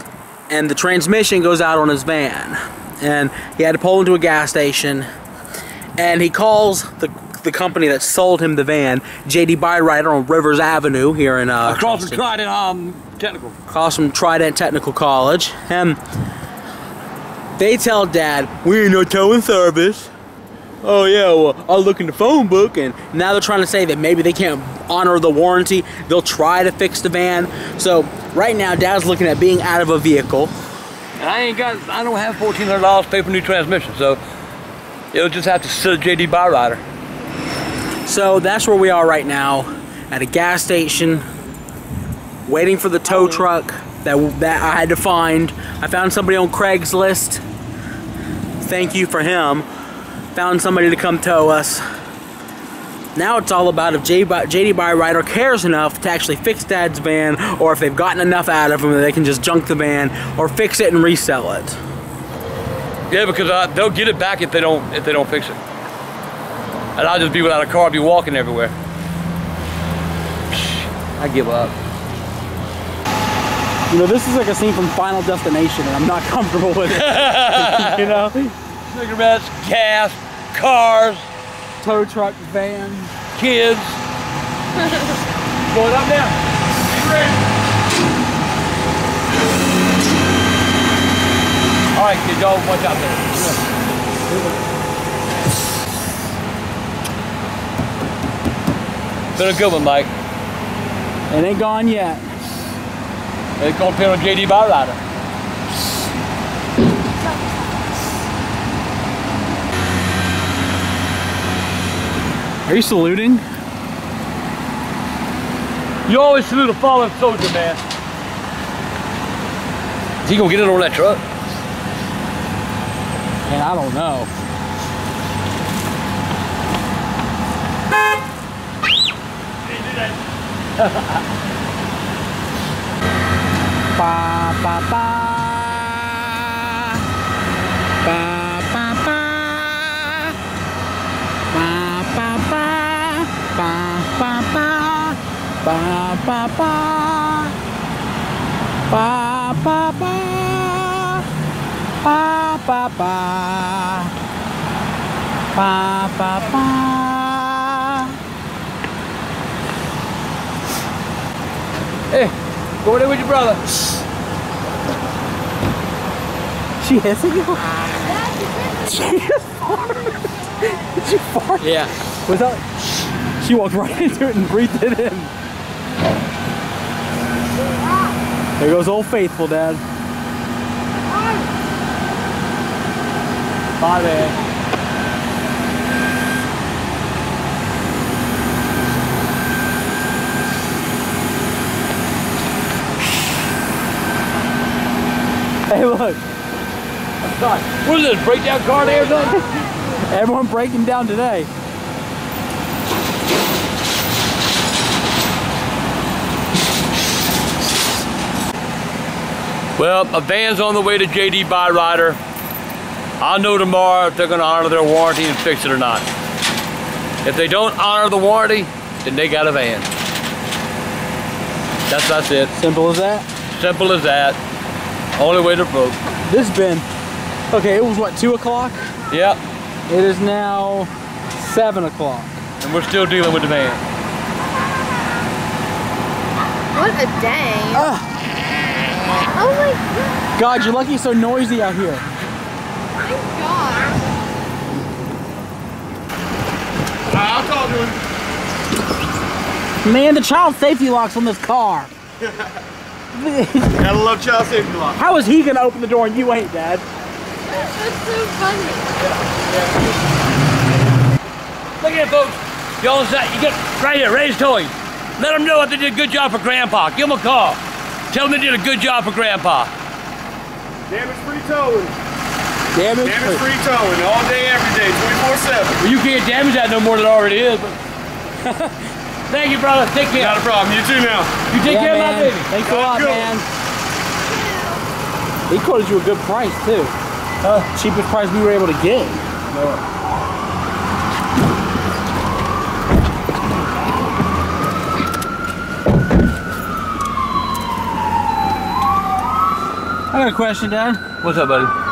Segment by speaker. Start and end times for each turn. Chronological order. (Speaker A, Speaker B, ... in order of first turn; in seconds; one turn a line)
Speaker A: 0.5-5.1
Speaker A: 6.0-12.2
Speaker B: 11.7-13.6
Speaker A: 13.7-16.0
Speaker A: 17.6-20.1
Speaker A: 20.8-30.5
Speaker B: 31.2-34.2
Speaker B: 35.1-36.8
Speaker A: 38.1-41.2
Speaker A: 42.5-47.4
Speaker A: 48.6-49.7
Speaker A: 50.3-51.8
Speaker A: 53.1-61.8
Speaker B: 63.1-65.6
Speaker B: 67.0-68.7
Speaker B: 70.5-71.7
Speaker A: 73.9-78.5
Speaker B: 76.9-78.1
Speaker B: 78.9-81.3
Speaker A: 81.8-83.1
Speaker B: 83.3-84.0
Speaker B: 85.7-86.4
Speaker C: 87.0-87.3
Speaker B: 91.9-93.6
Speaker B: 99.4-100.1
Speaker A: 101.3-102.3
Speaker B: 103.6-105.0
Speaker A: 112.7-113.4
Speaker B: 116.1-117.8
Speaker B: 120.2-121.2
Speaker A: 123.5-124.3
Speaker B: 130.8-131.2
Speaker A: 133.9-137.1
Speaker A: 138.0-140.4
Speaker A: 141.5-147.5
Speaker A: 148.9-151.3
Speaker A: 152.0-154.1
Speaker A: 155.5-158.2
Speaker B: 162.1-163.6
Speaker A: 166.8-167.7
Speaker A: 168.8-172.7
Speaker B: 171.6-171.9
Speaker A: 173.4-175.3
Speaker D: 177.8-178.1
Speaker A: 178.6-179.8
Speaker D: 181.1-181.5
Speaker B: 183.8-184.4
Speaker A: 195.7-196.2
Speaker B: 197.2-199.6
Speaker A: 199.9-201.5
Speaker B: 209.8-212.2
Speaker B: 213.2-216.1
Speaker B: 217.2-219.9
Speaker B: 221.9-222.5
Speaker A: 222.5-223.3
Speaker B: 223.5-224.4
Speaker B: 225.2-226.0
Speaker A: 226.2-226.9
Speaker A: 227.5-228.9
Speaker B: 229.1-229.4
Speaker A: 229.9-232.4
Speaker B: 232.6-233.8
Speaker D: 236.7-237.9
Speaker A: 237.7-238.1
Speaker D: 239.3-240.2
Speaker A: 240.4-242.1
Speaker D: 243.0-244.0
Speaker C: 247.1-248.0
Speaker A: 249.8-251.9
Speaker A: 253.1-253.9
Speaker C: 253.8-255.0
Speaker A: 255.0-256.9
Speaker D: 257.5-258.9
Speaker B: 259.0-259.7
Speaker B: 261.8-269.7
Speaker C: 270.9-272.0
Speaker A: 272.7-273.5
Speaker C: 273.0-275.8
Speaker B: 275.8-277.8
Speaker A: 278.4-278.9
Speaker B: 279.3-280.4
Speaker C: 280.1-281.4
Speaker B: 281.5-282.5
Speaker A: 281.6-283.5
Speaker C: 282.6-283.3
Speaker D: 284.3-284.8
Speaker A: 285.5-286.9
Speaker B: 287.4-287.7
Speaker A: 287.7-289.3
Speaker B: 289.5-289.8
Speaker A: 300.1-301.0
Speaker B: 301.2-301.7